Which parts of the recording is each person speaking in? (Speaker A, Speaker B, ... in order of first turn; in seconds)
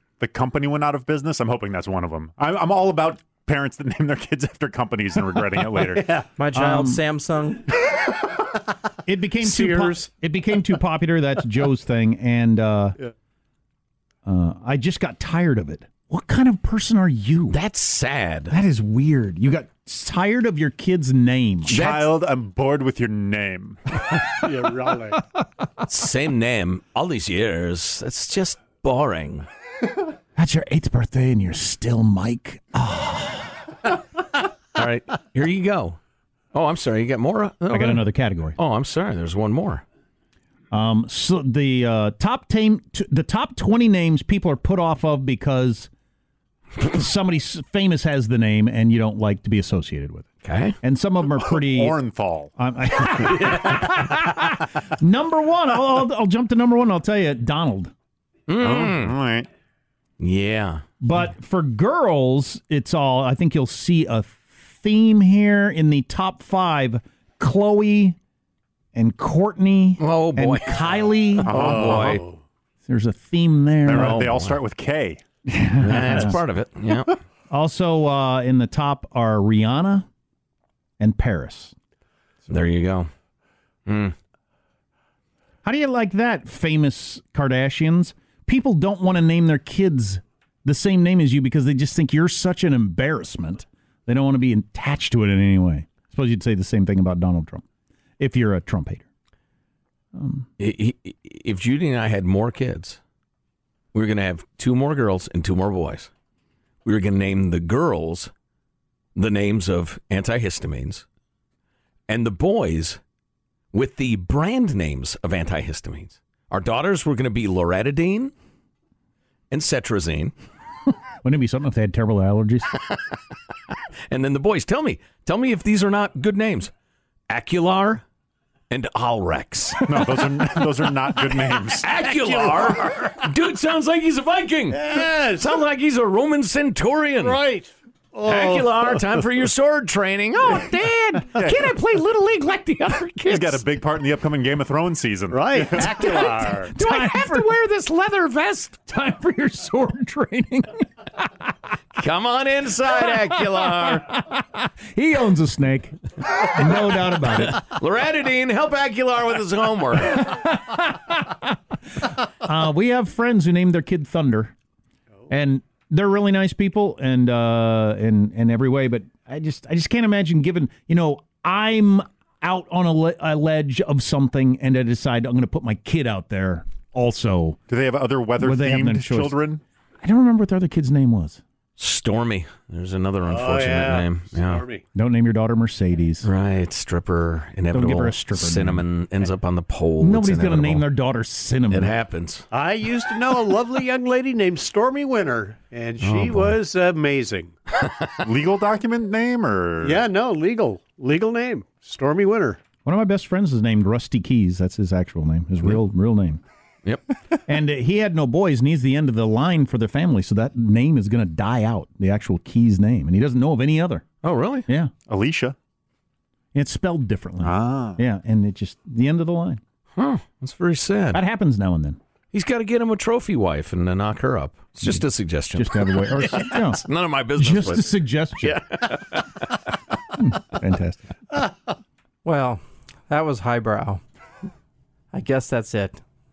Speaker A: 0.2-6.2, 21.7-24.2, 51.4-52.5, 58.6-59.5, 71.4-72.2, 73.8-75.2, 129.9-131.9, 141.4-141.6, 143.3-146.7, 177.7-179.6, 198.2-200.0, 215.1-215.6, 217.4-218.0
Speaker B: 5.8-6.3, 9.4-10.1, 24.3-25.2, 131.9-133.2, 134.8-135.6, 137.2-139.1, 145.3-146.2, 183.2-184.8, 192.5-197.5, 199.8-202.6
Speaker C: 6.4-7.7, 232.2-234.0, 235.1-236.0
Speaker D: 6.5-7.0, 9.1-13.0, 14.2-17.6, 18.5-21.8, 30.4-33.8, 37.7-38.6, 40.7-45.9, 46.8-50.3, 50.8-52.0, 52.6-57.9, 61.0-68.2, 68.9-72.2, 72.8-74.3, 75.5-76.4, 77.5-80.1, 81.0-81.8, 85.6-97.6, 98.2-99.1, 100.2-100.5, 121.2-122.8, 145.8-147.5, 148.8-150.9, 153.0-157.6, 160.1-161.4, 162.0-164.6, 165.3-177.6, 178.4-179.4, 180.0-181.4, 184.9-186.3, 187.7-188.9, 190.0-191.9, 202.8-206.4, 207.3-214.1, 214.7-214.9, 216.5-219.6, 221.1-222.0, 224.8-226.8, 227.3-228.7, 230.2-231.2
Speaker E: 17.5-18.5, 21.7-22.1, 25.8-29.5, 34.8-36.0, 36.5-38.0, 38.6-39.8, 50.4-50.8, 58.5-59.2, 60.2-60.8, 70.0-72.2, 73.9-74.6, 75.8-77.2, 82.5-83.1, 83.9-84.2, 100.6-103.0, 103.9-106.1, 106.8-108.3, 109.2-111.0, 112.1-113.0, 113.7-118.3, 119.5-120.3, 124.1-126.7, 127.3-128.0, 128.7-130.0, 131.7-137.4, 138.2-143.6, 146.0-148.8, 151.9-154.2, 156.7-160.4, 181.8-184.7, 186.2-190.9, 191.7-192.5, 196.0-196.6, 214.2-214.7, 220.0-221.2, 222.3-229.8